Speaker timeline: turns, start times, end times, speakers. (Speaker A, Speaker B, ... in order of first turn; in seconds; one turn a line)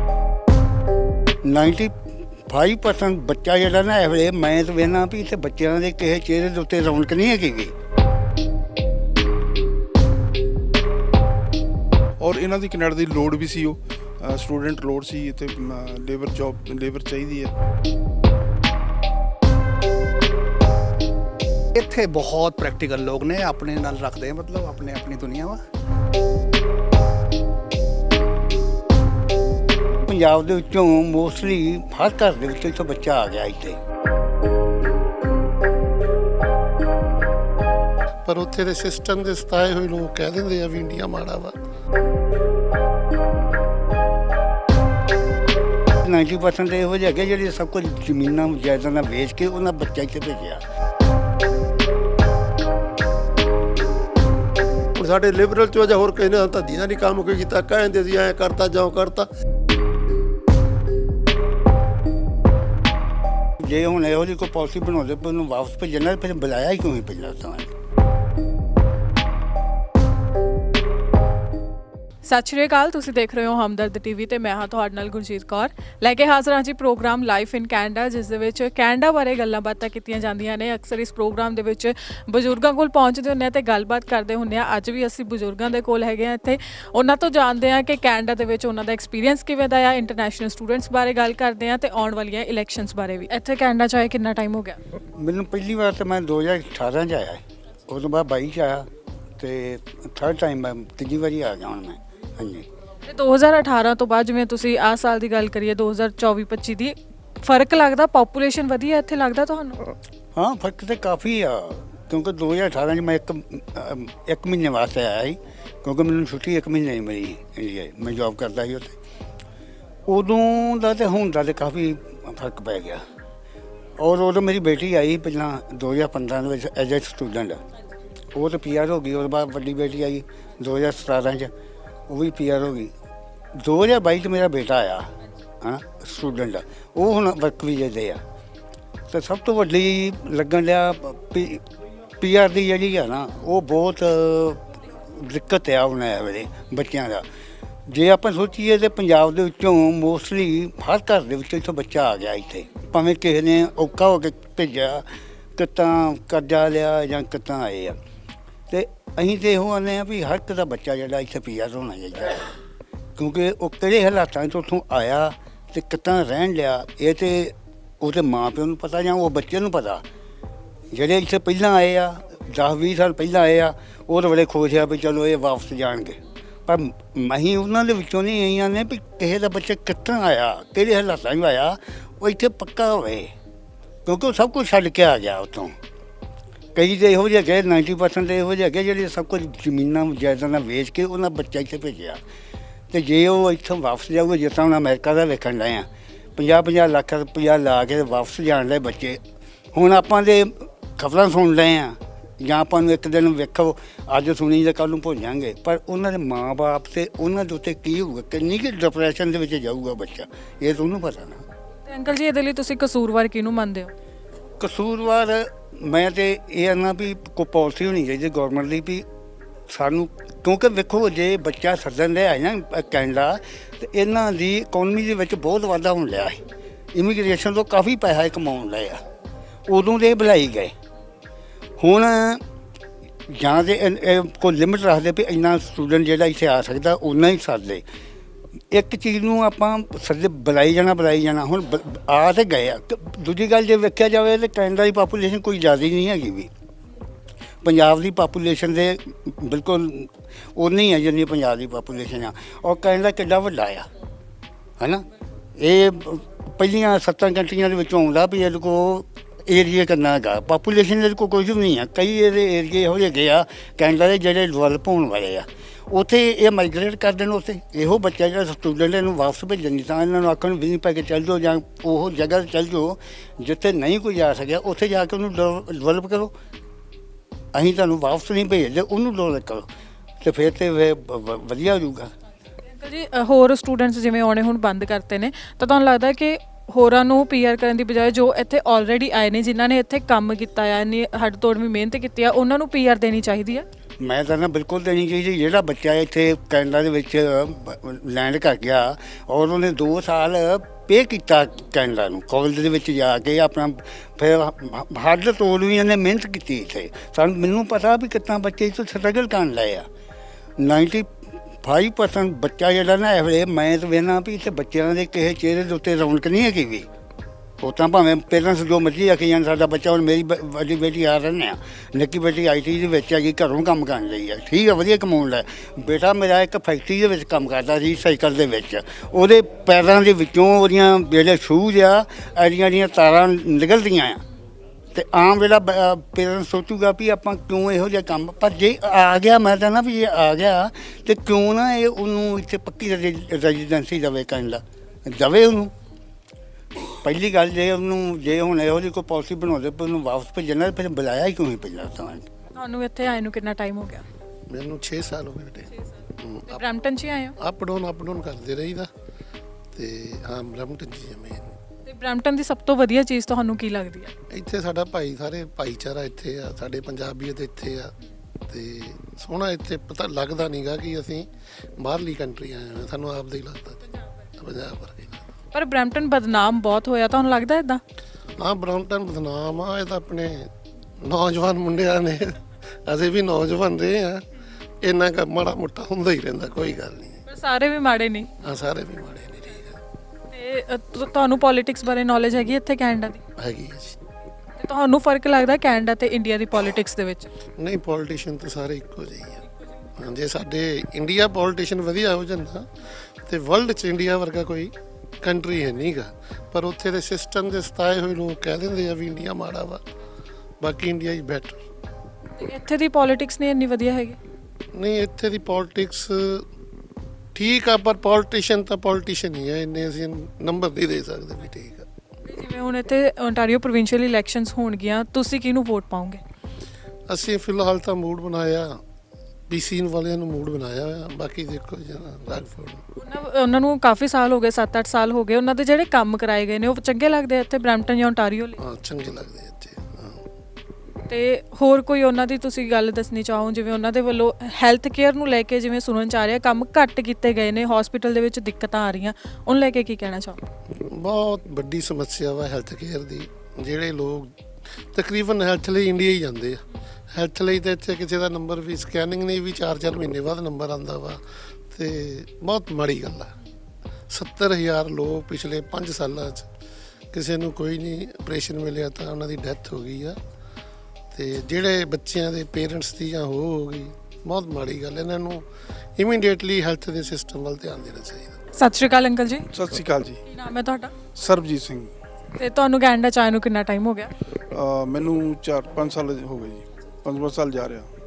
Speaker A: 1.4-7.7
Speaker B: 12.2-17.5
Speaker C: 21.7-25.6
Speaker A: 30.1-33.8
Speaker D: 38.2-41.5
Speaker A: 46.0-50.6
Speaker E: 54.9-59.3
Speaker A: 63.6-67.7
Speaker F: 72.2-94.8
Speaker A: 95.2-102.7
Speaker F: 103.0-109.8
Speaker A: 110.3-119.0
Speaker A: 120.1-123.0
Speaker A: 124.0-127.6
Speaker A: 128.3-131.5
Speaker A: 132.1-132.9
Speaker A: 133.5-138.2
Speaker A: 139.1-141.6
Speaker A: 142.2-147.2
Speaker A: 147.9-158.0
Speaker A: 158.7-162.5
Speaker A: 163.2-170.0
Speaker A: 170.9-183.3
Speaker A: 184.1-185.8
Speaker A: 186.7-192.2
Speaker A: 192.9-199.2
Speaker A: 199.7-211.4
Speaker F: 211.9-213.9
Speaker A: 214.6-219.1
Speaker A: 219.7-229.0
Speaker A: 229.7-230.7
Speaker A: 231.8-232.4
Speaker A: 233.3-237.8
Speaker A: 238.7-246.5
Speaker A: 247.6-253.9
Speaker A: 254.8-276.3
Speaker A: 277.5-279.7
Speaker A: 280.2-282.1
Speaker F: 282.7-293.6
Speaker A: 294.0-309.9
Speaker A: 310.6-316.9
Speaker A: 317.6-334.2
Speaker A: 334.9-345.7
Speaker A: 346.9-352.3
Speaker F: 352.5-354.0
Speaker D: 354.5-356.6
Speaker F: 356.5-357.4
Speaker D: 357.4-358.9
Speaker D: 359.7-361.5
Speaker F: 361.9-364.1
Speaker D: 364.3-367.9
Speaker D: 368.5-375.2
Speaker F: 375.5-377.8
Speaker D: 378.4-384.2
Speaker D: 384.8-387.2
Speaker F: 387.2-388.3
Speaker D: 388.4-389.8
Speaker F: 390.3-393.2
Speaker D: 393.4-394.0
Speaker F: 394.6-397.3
Speaker D: 397.6-399.4
Speaker D: 400.0-409.8
Speaker D: 410.6-411.6
Speaker F: 412.4-414.2
Speaker D: 414.7-416.5
Speaker D: 417.3-421.9
Speaker F: 422.2-426.2
Speaker D: 427.1-428.8
Speaker D: 429.5-432.8
Speaker F: 433.0-438.6
Speaker D: 438.6-440.2
Speaker F: 441.1-450.4
Speaker D: 450.7-463.3
Speaker D: 464.1-466.5
Speaker D: 467.1-470.2
Speaker D: 471.1-478.4
Speaker F: 478.5-479.5
Speaker B: 479.5-480.2
Speaker F: 480.3-480.9
Speaker B: 481.1-481.9
Speaker F: 482.4-484.1
Speaker B: 484.5-487.9